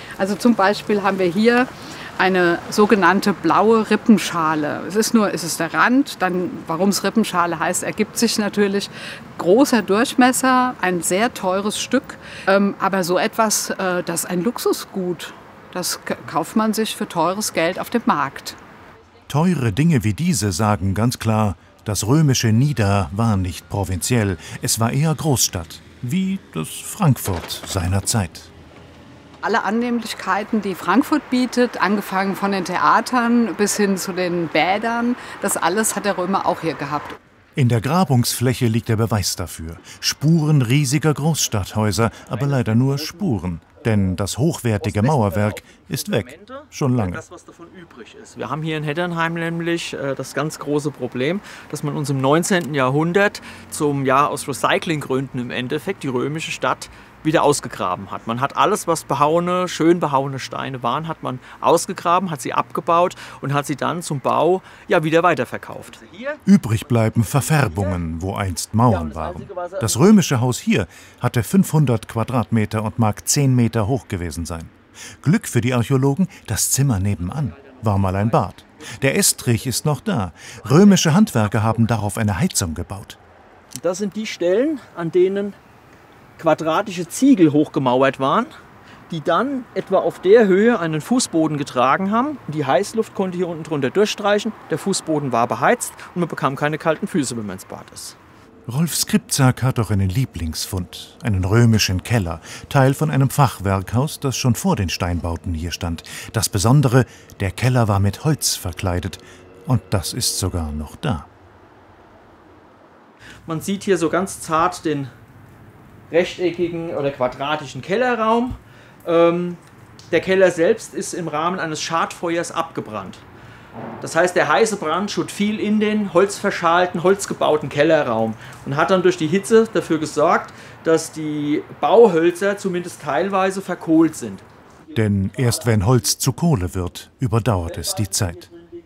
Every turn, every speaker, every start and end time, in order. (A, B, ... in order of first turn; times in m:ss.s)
0:00.2-0:18.6 A
0:19.3-0:28.5 B
0:29.4-0:37.2 A
0:37.6-0:47.2 B
0:42.2-0:43.4 C
0:44.8-1:06.4 C
1:06.4-1:23.2 B
1:07.2-1:08.0 C
1:08.9-1:10.2 C
1:21.0-1:21.3 C
1:23.8-1:25.6 C
1:26.4-1:28.5 C
1:29.1-1:38.2 C
1:38.7-1:51.3 B
1:53.4-1:55.1 C
1:56.1-2:03.2 C
2:04.0-2:14.4 C
2:14.9-2:18.5 B
2:17.7-2:18.4 C